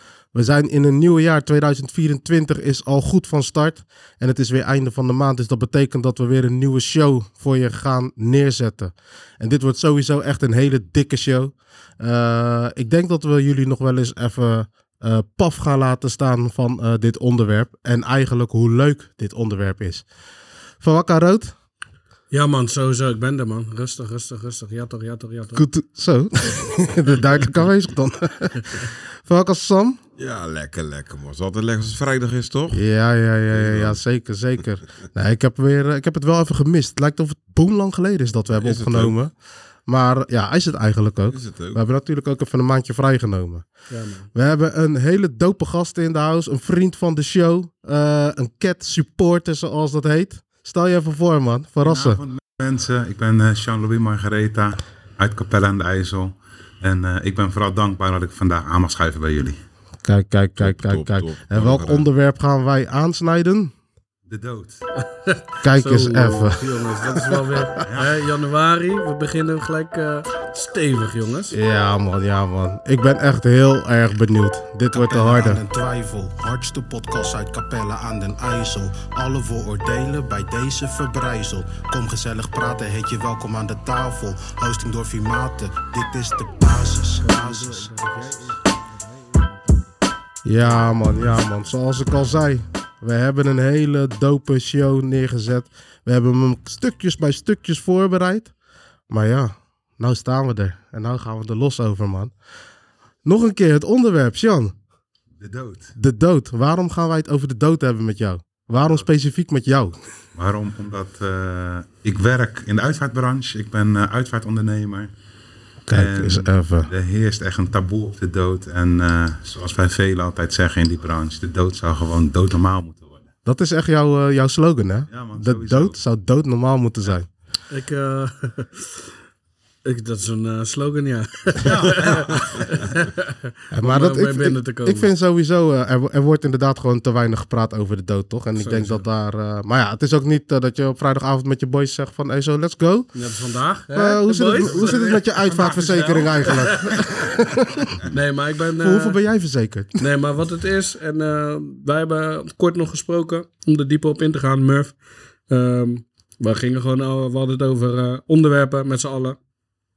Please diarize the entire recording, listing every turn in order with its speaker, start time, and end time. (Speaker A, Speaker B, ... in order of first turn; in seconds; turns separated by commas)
Speaker A: 0.3-20.1, Speaker A: 20.8-21.5, Speaker B: 22.3-25.6, Speaker A: 25.5-30.0, Speaker C: 30.2-32.8, Speaker A: 32.7-39.3, Speaker C: 33.5-34.0, Speaker C: 38.5-39.1, Speaker A: 39.9-43.6, Speaker C: 41.3-41.8, Speaker B: 43.9-44.3, Speaker A: 44.3-52.2, Speaker D: 51.8-59.6, Speaker A: 60.0-63.7, Speaker C: 60.5-62.0, Speaker D: 64.3-64.8, Speaker B: 65.3-71.5, Speaker A: 65.6-66.7, Speaker D: 67.8-68.2, Speaker A: 71.5-75.6, Speaker E: 74.9-88.0, Speaker B: 87.2-89.9, Speaker A: 90.4-98.5, Speaker A: 99.1-102.3, Speaker A: 103.2-104.7, Speaker D: 105.4-105.9, Speaker A: 106.0-110.0, Speaker D: 108.8-109.0, Speaker D: 110.3-115.1, Speaker A: 115.9-116.9, Speaker D: 115.9-123.2, Speaker A: 123.4-127.3, Speaker D: 125.1-126.0, Speaker B: 127.7-129.1, Speaker B: 129.8-135.1, Speaker D: 131.6-132.8, Speaker A: 133.7-143.1, Speaker B: 138.6-139.1, Speaker B: 143.1-145.1, Speaker A: 143.9-148.0, Speaker D: 144.6-147.2, Speaker B: 146.5-147.0, Speaker B: 148.1-149.2, Speaker A: 148.8-150.0, Speaker B: 150.0-155.0, Speaker B: 155.5-159.4